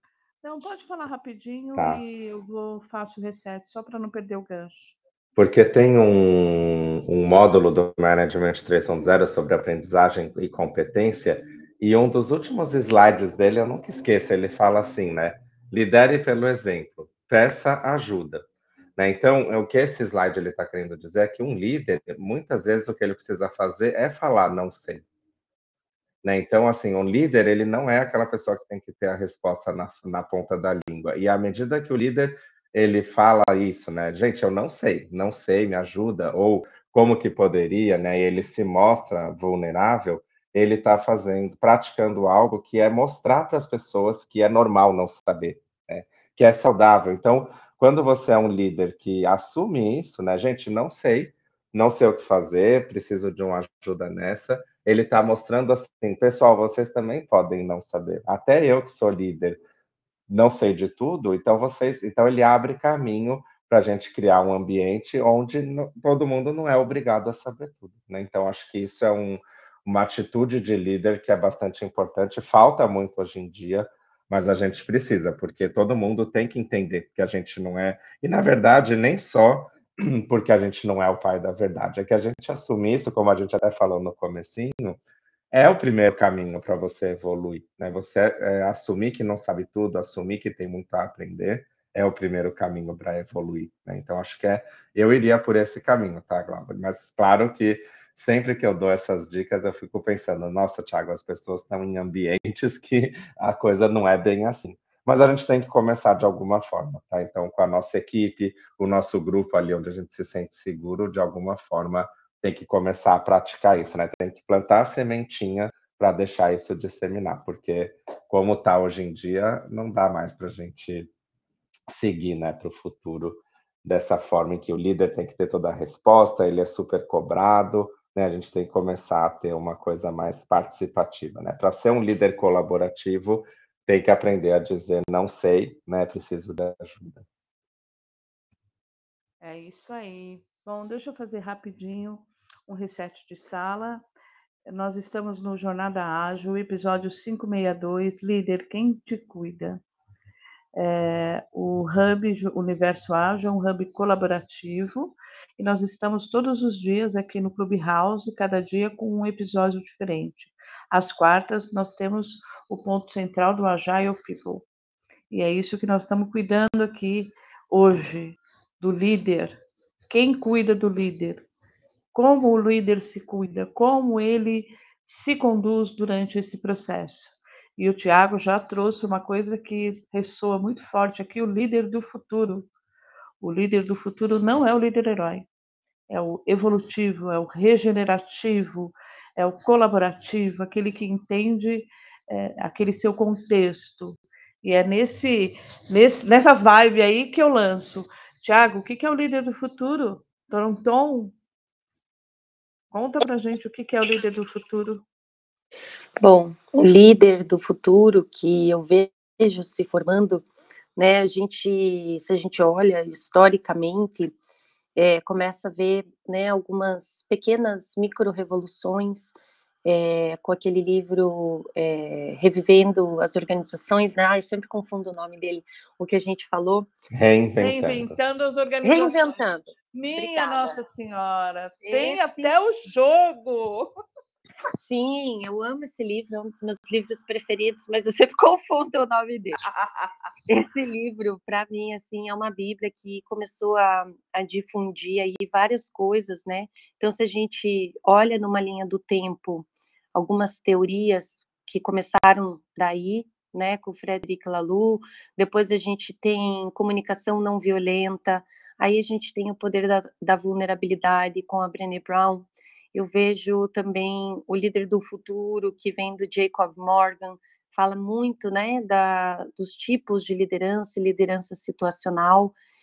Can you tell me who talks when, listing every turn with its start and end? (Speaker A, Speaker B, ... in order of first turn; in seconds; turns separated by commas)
Speaker A: 0.4-5.0, Speaker B: 1.8-2.0, Speaker B: 5.4-18.4, Speaker B: 19.0-25.0, Speaker B: 26.2-59.6, Speaker B: 60.3-85.0, Speaker B: 85.5-121.1, Speaker B: 121.9-137.2, Speaker A: 139.4-144.1, Speaker A: 144.7-149.8, Speaker A: 150.8-164.7, Speaker A: 165.3-171.4, Speaker A: 172.1-182.7, Speaker A: 183.4-185.5, Speaker A: 186.1-201.3, Speaker A: 202.9-205.0, Speaker C: 206.2-214.3, Speaker C: 214.9-226.9, Speaker B: 227.1-228.2, Speaker A: 227.6-229.4, Speaker C: 228.8-230.8, Speaker A: 229.9-233.9, Speaker C: 231.8-232.5, Speaker C: 234.8-239.6, Speaker A: 239.7-240.1, Speaker C: 240.5-272.6